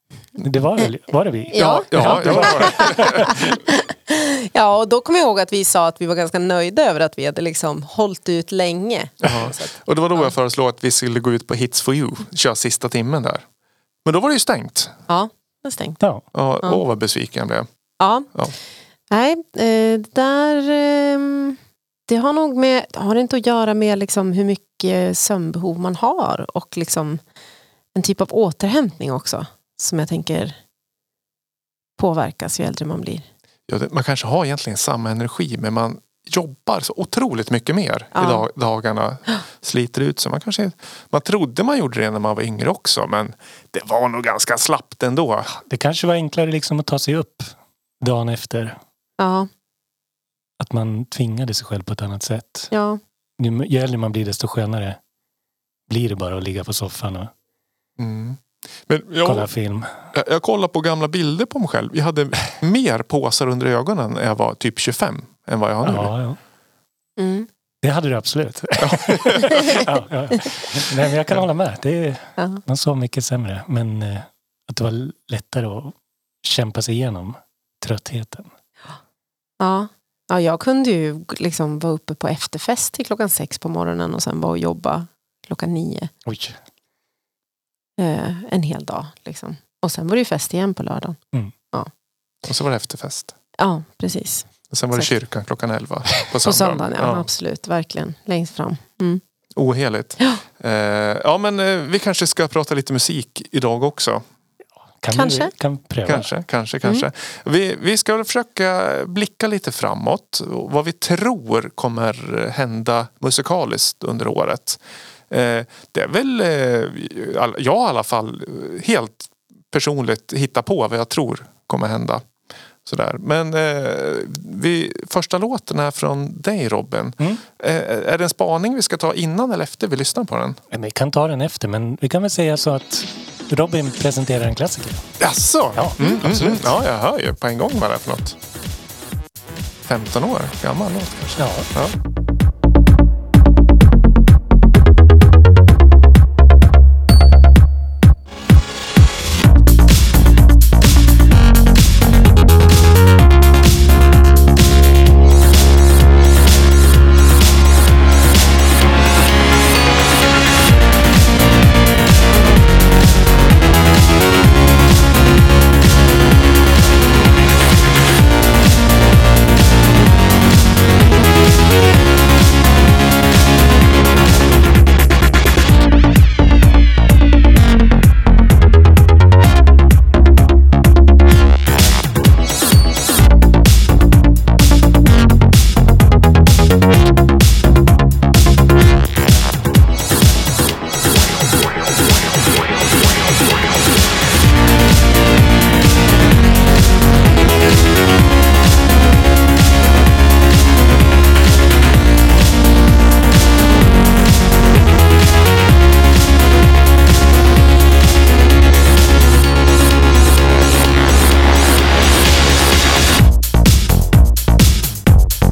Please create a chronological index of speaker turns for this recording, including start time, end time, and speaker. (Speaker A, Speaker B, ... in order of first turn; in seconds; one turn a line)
Speaker A: 0.4-3.3
Speaker B: 1.5-10.3
Speaker C: 1.6-3.4
Speaker C: 9.2-13.4
Speaker C: 14.0-14.9
Speaker B: 15.1-16.0
Speaker C: 16.3-17.7
Speaker B: 18.0-18.3
Speaker B: 19.1-27.2
Speaker B: 27.9-30.6
Speaker B: 32.0-33.3
Speaker C: 33.7-45.5
Speaker B: 38.1-38.4
Speaker A: 45.6-48.8
Speaker B: 49.2-49.5
Speaker A: 50.6-52.7
Speaker B: 52.7-53.0
Speaker A: 53.4-55.0
Speaker A: 55.9-57.3
Speaker C: 58.0-59.5
Speaker A: 59.2-60.0
Speaker C: 60.1-66.1
Speaker A: 65.8-66.4
Speaker B: 67.2-67.5
Speaker A: 67.8-78.5
Speaker C: 68.8-69.8
Speaker B: 79.6-86.1
Speaker A: 86.2-86.6
Speaker B: 88.0-91.2
Speaker C: 92.4-93.3
Speaker B: 93.6-95.1
Speaker C: 94.7-97.3
Speaker B: 96.4-99.2
Speaker C: 99.5-104.2
Speaker A: 105.0-106.3
Speaker B: 105.1-105.5
Speaker C: 106.0-122.2
Speaker C: 122.8-130.6
Speaker A: 130.7-135.1
Speaker C: 135.2-138.4
Speaker A: 135.8-136.7
Speaker C: 139.8-142.0
Speaker A: 141.4-141.7